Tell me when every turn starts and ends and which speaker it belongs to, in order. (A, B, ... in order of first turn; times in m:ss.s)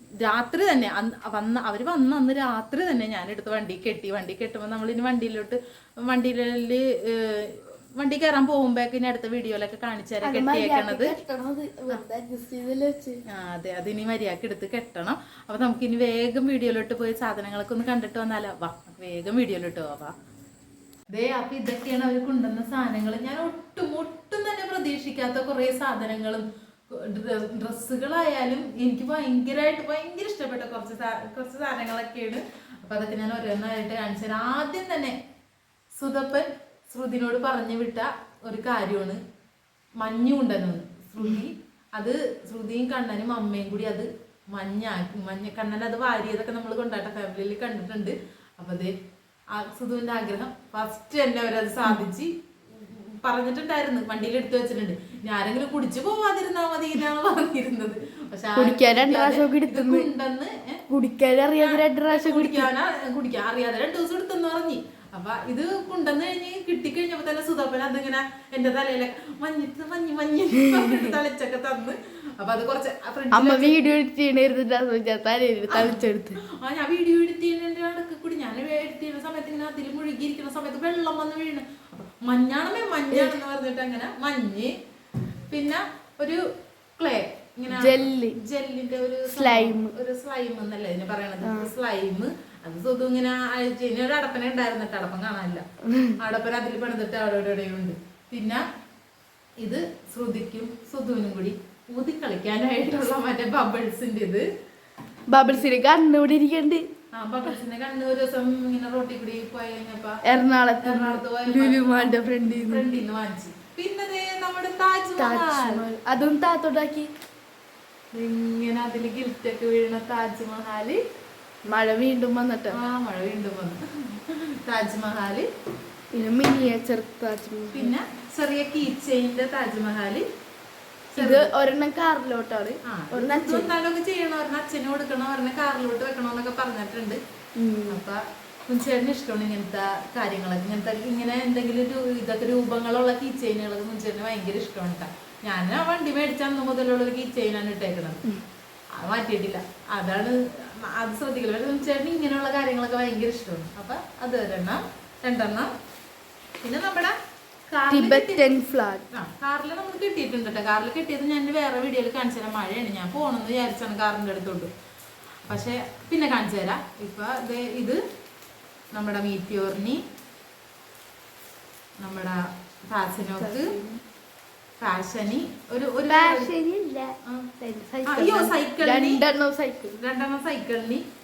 0:00.2-0:11.1 A
0:10.2-0:13.2 B
0:13.3-0:20.1 A
0:21.1-0:35.2 A
0:36.0-0:39.2 A
0:40.0-0:48.9 A
0:49.5-1:00.8 A
0:58.6-1:00.1 B
1:00.9-1:02.7 B
1:01.6-1:13.9 A
1:10.6-1:11.2 B
1:13.3-1:16.4 B
1:15.7-1:24.7 A
1:23.1-1:23.4 B
1:25.5-1:26.4 A
1:27.0-1:35.6 A
1:27.7-1:28.4 B
1:29.3-1:29.9 B
1:31.4-1:31.7 B
1:35.9-1:36.2 B
1:36.2-1:38.6 A
1:39.6-1:44.4 A
1:45.3-1:46.8 B
1:47.1-1:50.2 A
1:50.3-1:53.0 B
1:50.8-1:55.8 A
1:55.2-1:57.1 B
1:58.2-2:01.0 A
2:01.7-2:02.8 B
2:02.7-2:05.5 A
2:06.1-2:07.9 B
2:07.7-2:10.2 A
2:11.1-2:11.5 A
2:11.2-2:13.7 B
2:12.9-2:17.2 A
2:17.6-2:18.0 B
2:17.9-2:28.2 A
2:29.0-2:35.7 A
2:36.6-2:37.2 A
2:37.7-2:38.5 A
2:37.9-2:39.0 B
2:39.1-2:44.7 A
2:45.5-2:48.0 A
2:48.9-2:50.0 A
2:52.0-2:52.4 A
2:52.9-2:53.7 A
2:53.4-2:54.0 B
2:54.8-2:56.5 A
2:56.1-3:00.0 B
2:58.1-2:59.2 A
3:00.0-3:01.0 A